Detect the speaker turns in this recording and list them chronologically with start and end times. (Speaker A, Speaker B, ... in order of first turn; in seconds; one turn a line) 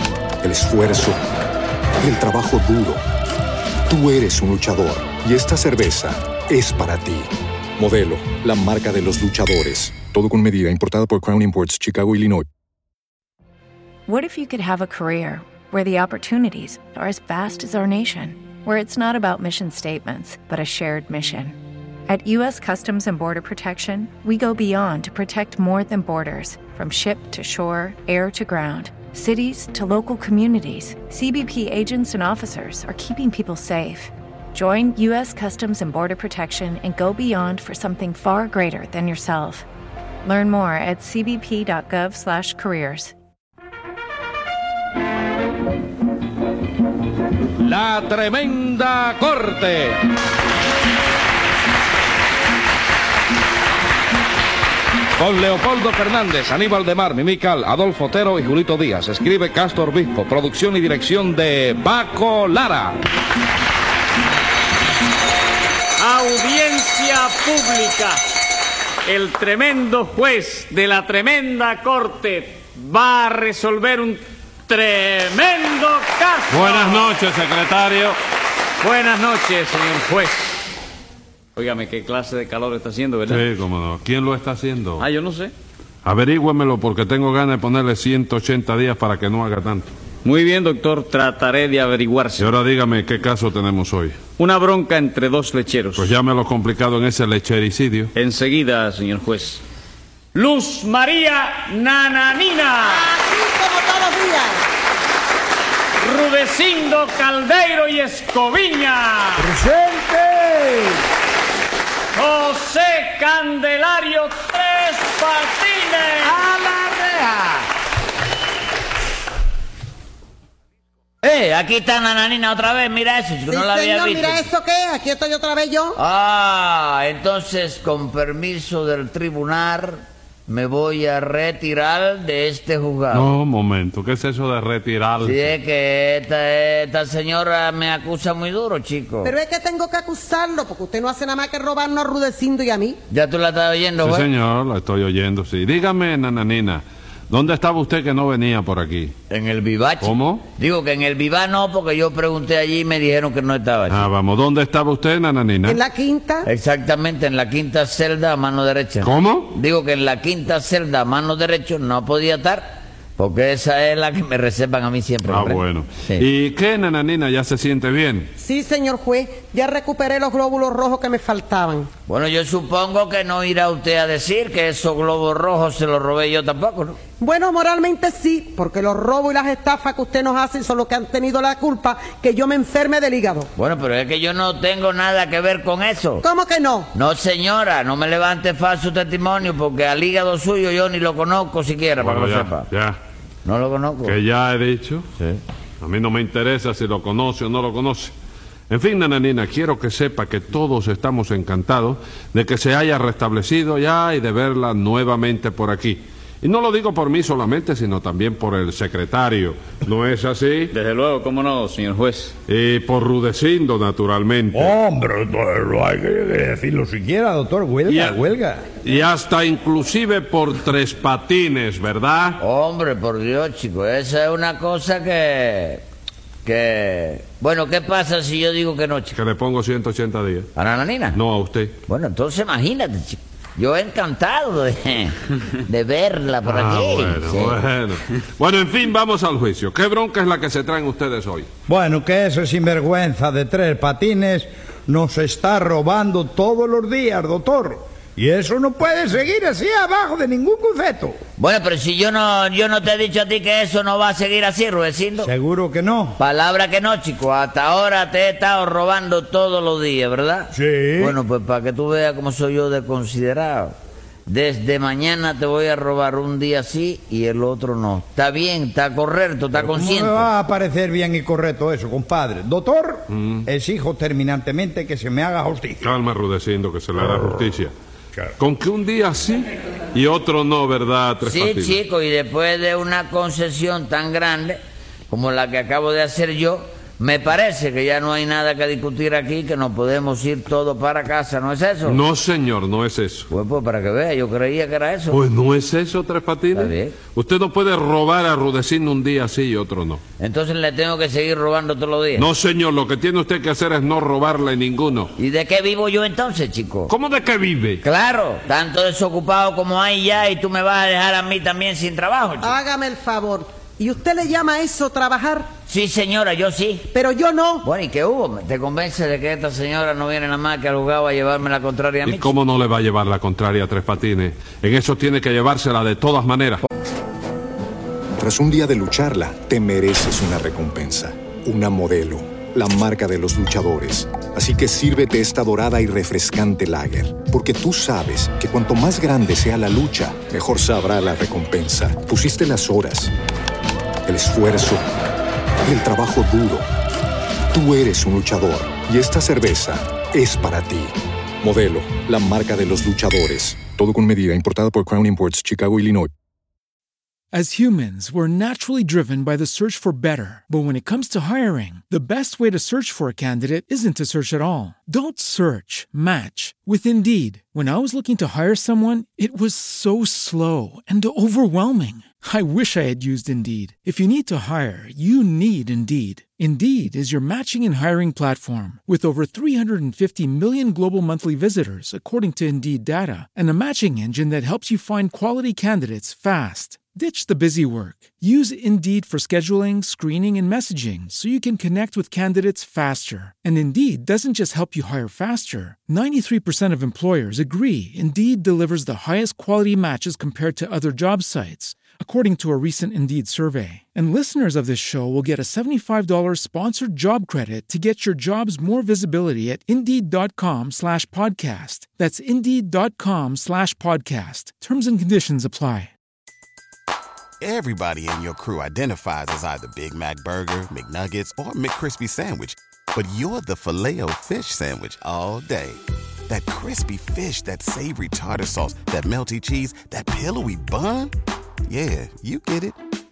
Speaker A: 0.4-1.2
Speaker A: 2.0-3.0
Speaker A: 3.9-12.5
Speaker B: 14.1-39.7
Speaker B: 40.2-43.1
Speaker C: 47.6-50.0
Speaker C: 55.2-63.0
Speaker D: 66.0-68.2
Speaker D: 69.0-77.2
Speaker E: 76.5-78.2
Speaker D: 78.8-80.6
Speaker D: 81.6-83.5
Speaker E: 83.3-85.0
Speaker D: 85.0-85.5
Speaker E: 86.0-89.9
Speaker D: 90.2-92.5
Speaker E: 92.4-94.2
Speaker D: 94.4-96.2
Speaker E: 96.0-98.1
Speaker D: 98.1-99.6
Speaker D: 100.3-103.1
Speaker F: 102.9-104.6
Speaker D: 106.0-109.5
Speaker G: 109.5-110.7
Speaker D: 112.1-116.4
Speaker H: 116.2-117.7
Speaker H: 121.2-124.5
Speaker F: 123.5-126.0
Speaker H: 126.0-133.3
Speaker E: 133.1-135.5
Speaker H: 135.2-139.3
Speaker F: 139.2-143.0
Speaker H: 143.1-144.3
Speaker E: 144.0-149.1
Speaker H: 149.3-154.1
Speaker E: 150.0-150.5
Speaker E: 153.9-155.8
Speaker F: 155.7-156.5
Speaker H: 156.5-166.2
Speaker E: 159.0-159.5
Speaker E: 165.3-168.3
Speaker F: 168.4-171.9
Speaker H: 172.1-177.0
Speaker F: 177.2-183.5
Speaker H: 183.6-186.2
Speaker F: 186.2-186.9
Speaker H: 186.9-192.7
Speaker E: 192.0-193.0
Speaker H: 193.4-194.2
Speaker E: 194.1-195.1
Speaker E: 195.8-198.1
Speaker E: 198.7-210.7
Speaker D: 210.7-212.3
Speaker E: 212.5-214.7
Speaker G: 214.5-218.6
Speaker E: 217.9-218.2
Speaker E: 218.8-222.4
Speaker H: 222.4-225.8
Speaker H: 226.4-229.2
Speaker E: 229.1-230.5
Speaker H: 230.6-231.2
Speaker E: 231.1-231.8
Speaker H: 231.9-235.2
Speaker H: 235.7-237.6
Speaker E: 236.4-241.5
Speaker G: 241.7-251.2
Speaker H: 251.4-255.3
Speaker G: 255.2-256.2
Speaker H: 256.2-263.8
Speaker G: 260.5-261.2
Speaker H: 264.3-270.3
Speaker G: 269.6-275.8
Speaker E: 273.1-273.4
Speaker E: 275.8-277.7
Speaker E: 278.4-281.8
Speaker H: 281.2-292.0
Speaker E: 291.9-293.3
Speaker H: 293.3-295.2
Speaker E: 295.1-300.0
Speaker H: 296.5-297.0
Speaker H: 300.2-302.3
Speaker E: 302.2-305.1
Speaker H: 305.2-306.9
Speaker E: 306.9-307.8
Speaker H: 307.8-312.5
Speaker F: 312.4-315.5
Speaker H: 315.7-316.9
Speaker F: 316.9-317.6
Speaker H: 317.6-322.3
Speaker E: 322.1-326.6
Speaker A: 328.2-343.1
Speaker A: 344.1-344.9
Speaker A: 345.6-346.7
Speaker A: 347.5-356.1
Speaker I: 357.3-415.9
Speaker J: 417.4-431.1
Speaker J: 431.7-432.8